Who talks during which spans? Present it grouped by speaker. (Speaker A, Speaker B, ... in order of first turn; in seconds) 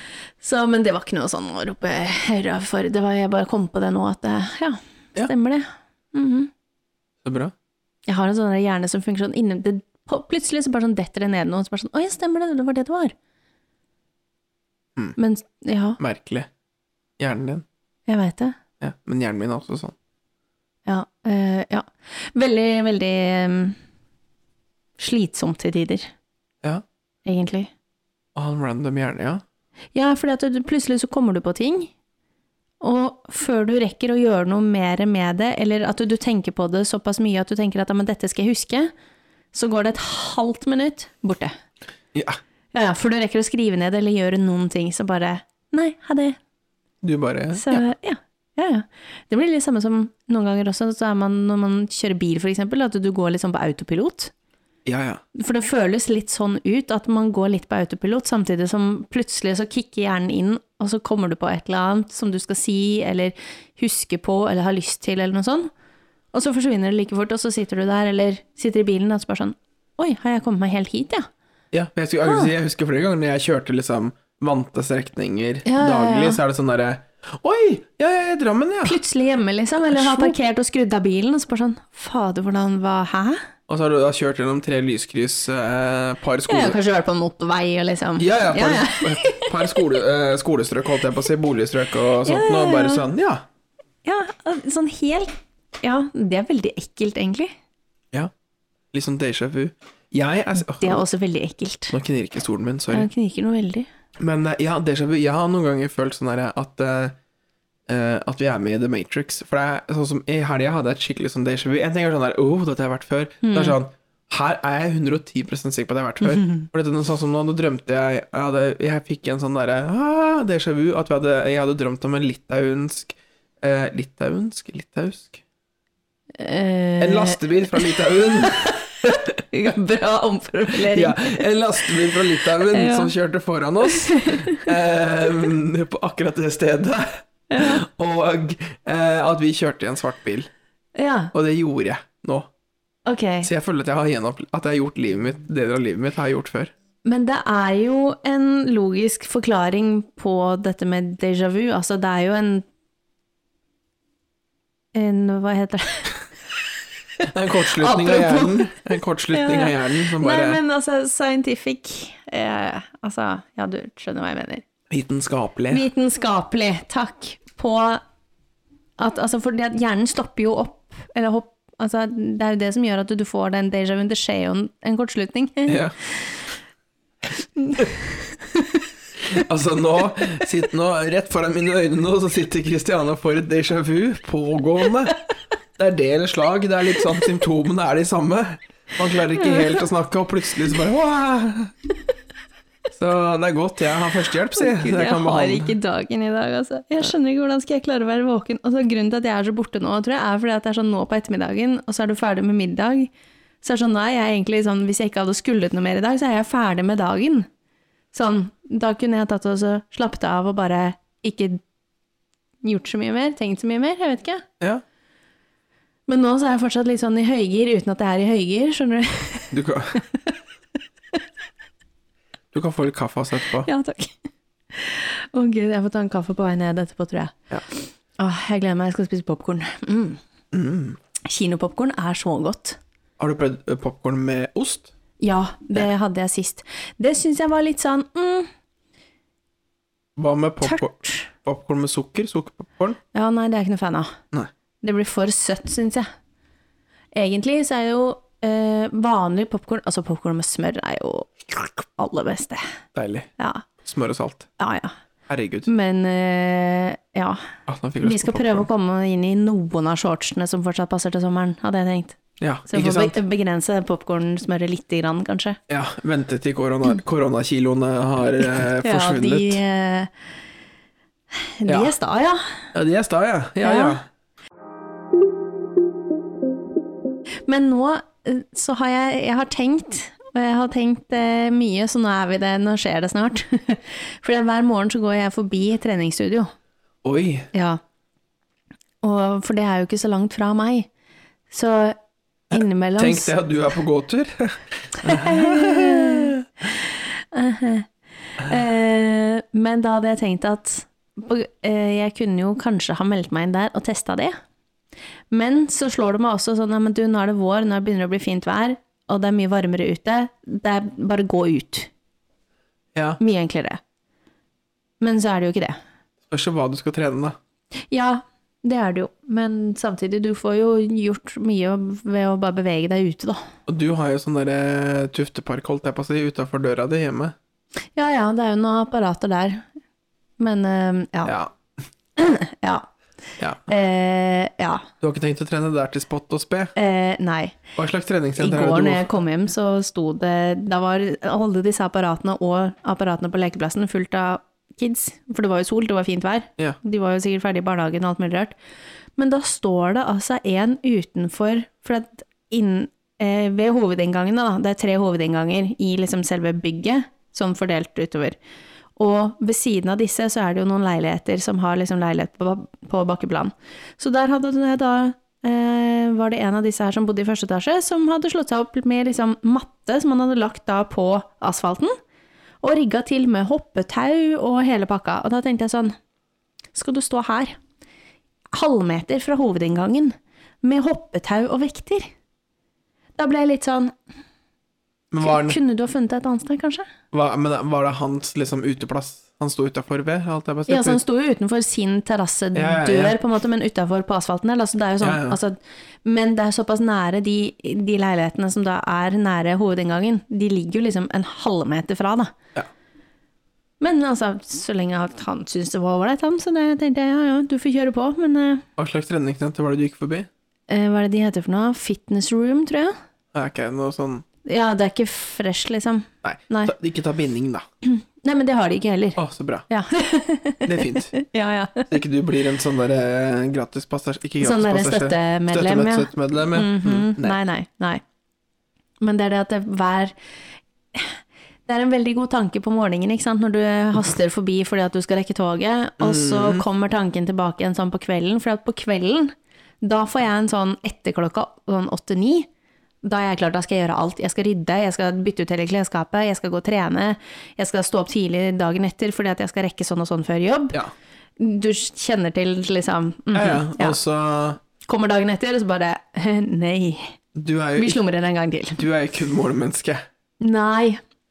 Speaker A: 0.4-6.5, 8.1-13.1, 15.2-16.0, 18.1-18.6, 20.9-23.8, 25.0-26.1, 27.2-27.7, 29.9-31.9, 32.8-38.9, 39.5-41.5, 42.7-46.4, 47.6-54.3, 55.4-65.7, 66.3-71.3, 72.2-72.5, 75.7-76.4, 78.8-83.4, 86.5-89.8, 92.2-93.1, 94.0-97.5, 100.8-102.0, 102.9-103.9, 113.4-113.8, 116.4-116.7, 126.4-133.1, 133.9-134.7, 137.5-137.8, 141.0-141.3, 143.1-143.5, 147.1-152.7, 154.9-156.2, 157.5-164.6, 165.7-168.0, 169.0-175.8, 177.6-178.8, 189.4-189.8, 194.6-207.5, 208.1-211.6, 212.6-214.5, 216.1-220.3, 223.6-224.2, 224.7-230.2, 231.2-232.8, 235.2-238.5, 240.6-241.3, 243.1-244.2, 244.8-246.1, 247.1-252.6, 253.4-253.7, 254.6-254.9, 255.7-257.4, 258.0-265.6, 268.7-270.1, 271.3-272.7, 273.6-274.0, 277.5-286.5, 287.5-287.8, 289.0-290.9, 291.5-292.0, 292.5-293.3, 295.0-304.4, 305.3-311.9, 313.2-313.8, 315.0-315.8, 317.9-323.4, 328.0-329.6, 330.4-331.4, 332.2-332.9, 333.7-334.9, 336.8-337.6, 338.4-348.6, 349.2-358.4, 359.0-371.9, 372.6-376.0, 376.8-377.6, 378.5-382.1, 383.2-383.9, 385.2-386.9, 390.7-402.3, 403.8-408.6, 410.7-412.9, 414.4-416.7, 417.8-421.9, 424.4-428.0, 429.0-430.1, 430.9-442.5, 443.0-450.8, 451.4-454.0, 454.9-457.2, 457.8-458.8, 460.4-461.0
Speaker B: 7.2-7.5, 16.0-16.5, 17.2-17.6, 18.8-19.9, 28.4-29.4, 47.0-47.8, 54.9-55.2, 71.7-79.0, 79.9-80.4, 83.7-86.8, 88.2-93.4, 98.9-101.0, 101.9-103.1, 104.2-107.2, 107.9-125.4, 127.0-129.3, 130.8-140.5, 141.3-142.5, 143.4-146.7, 157.2-160.6, 164.9-165.9, 175.7-175.9, 179.3-185.2, 185.8-191.7, 192.9-195.7, 219.5-220.0, 222.5-223.7, 230.5-231.0, 233.2-234.9, 240.2-243.0, 252.9-253.3, 253.8-254.5, 255.3-255.7, 257.7-258.7, 262.4-263.2, 265.7-269.6, 271.7-271.9, 272.7-274.1, 287.0-287.5, 292.5-296.4, 312.9-313.2, 316.3-317.4, 323.7-327.4, 331.3-331.5, 333.4-333.7, 335.0-336.7, 337.8-339.1, 385.1-385.6, 387.1-391.0, 392.6-393.2, 395.0-395.4, 408.8-410.3, 413.3-414.2, 416.2-417.6, 419.2-419.7, 420.7-421.1, 421.9-427.4, 436.0-436.6, 453.3-454.6, 457.4-458.0, 458.8-460.0